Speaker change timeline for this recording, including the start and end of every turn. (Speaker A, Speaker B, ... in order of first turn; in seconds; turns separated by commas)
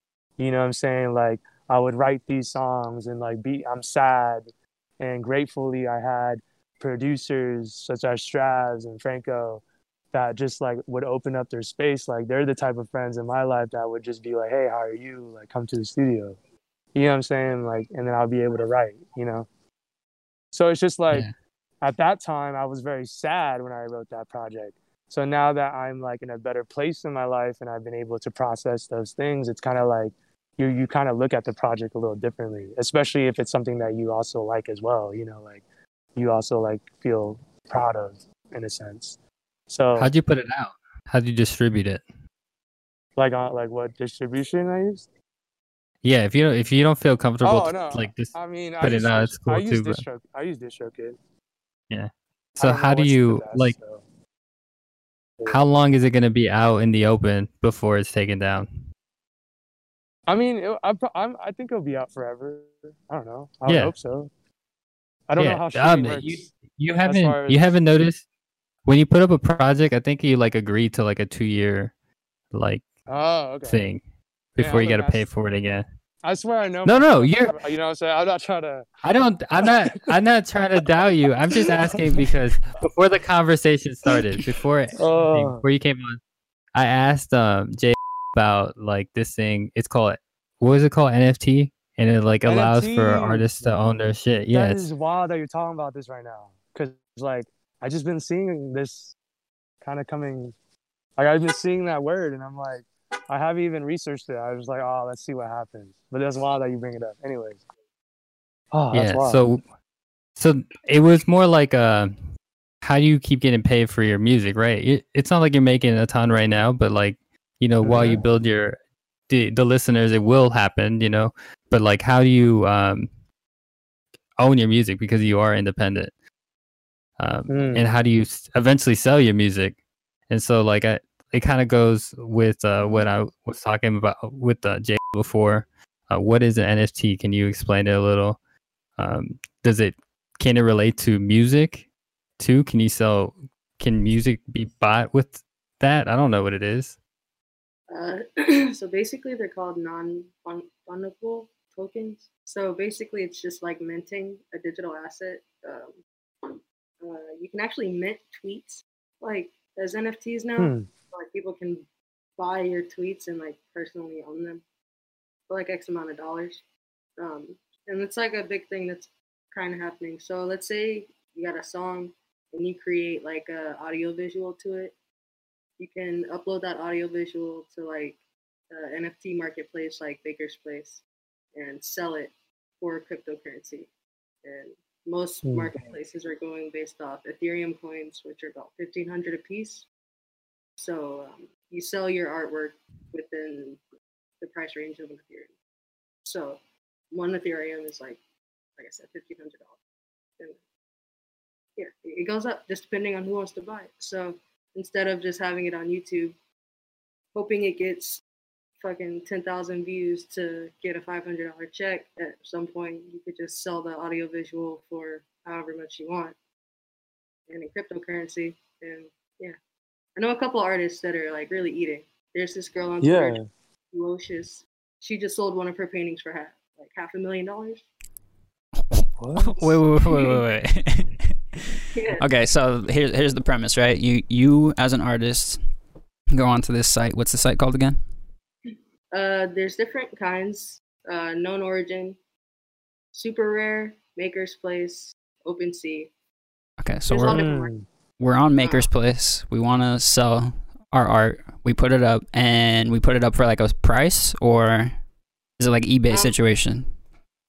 Speaker A: 0.4-16.4, Speaker A: 16.9-19.5, Speaker A: 20.5-21.3, Speaker A: 21.8-35.6, Speaker A: 36.1-39.2, Speaker A: 39.7-40.1, Speaker B: 40.0-42.0, Speaker A: 43.2-45.1, Speaker B: 46.0-50.0, Speaker A: 47.4-51.2, Speaker B: 51.9-53.8, Speaker A: 52.6-54.0, Speaker B: 55.5-58.8, Speaker A: 60.3-64.3, Speaker B: 63.7-63.9, Speaker A: 65.3-67.7, Speaker B: 65.4-68.2, Speaker B: 68.9-71.9, Speaker B: 72.5-72.9, Speaker A: 73.1-73.9, Speaker B: 73.6-74.0, Speaker B: 74.6-75.9, Speaker A: 74.6-75.3, Speaker A: 76.2-78.9, Speaker B: 76.8-77.6, Speaker B: 79.0-86.2, Speaker A: 85.0-85.7, Speaker B: 86.8-94.9, Speaker A: 92.5-93.5, Speaker A: 94.5-99.2, Speaker A: 99.8-100.5, Speaker A: 101.2-107.6, Speaker A: 108.7-109.5, Speaker B: 108.9-109.7, Speaker B: 110.4-112.2, Speaker B: 112.8-118.8, Speaker A: 117.8-118.2, Speaker B: 119.3-123.1, Speaker B: 124.4-126.1, Speaker B: 127.2-129.8, Speaker A: 127.5-127.9, Speaker B: 130.3-138.4, Speaker B: 139.0-141.9, Speaker B: 142.4-147.0, Speaker C: 147.9-161.8, Speaker A: 160.6-160.9, Speaker C: 162.4-164.6, Speaker C: 165.5-166.6, Speaker C: 167.2-174.9, Speaker C: 175.8-178.2, Speaker C: 178.7-181.0, Speaker C: 181.6-183.9, Speaker C: 184.4-189.9, Speaker A: 185.4-185.8, Speaker C: 190.8-193.8, Speaker C: 194.4-195.5, Speaker C: 196.2-196.6, Speaker C: 197.1-198.2, Speaker C: 198.8-199.8, Speaker C: 201.8-206.3, Speaker C: 207.3-208.2, Speaker C: 208.8-216.3, Speaker C: 217.5-219.6, Speaker C: 220.2-223.4, Speaker A: 223.0-223.5, Speaker C: 223.9-227.8, Speaker D: 228.9-235.7, Speaker A: 229.2-229.8, Speaker C: 231.9-232.3, Speaker D: 236.3-238.1, Speaker C: 239.1-242.2, Speaker C: 243.1-246.1, Speaker D: 246.8-247.5, Speaker C: 247.1-247.7, Speaker A: 247.3-247.9, Speaker D: 248.2-255.0, Speaker C: 248.6-248.9, Speaker D: 255.6-256.9, Speaker C: 256.1-256.4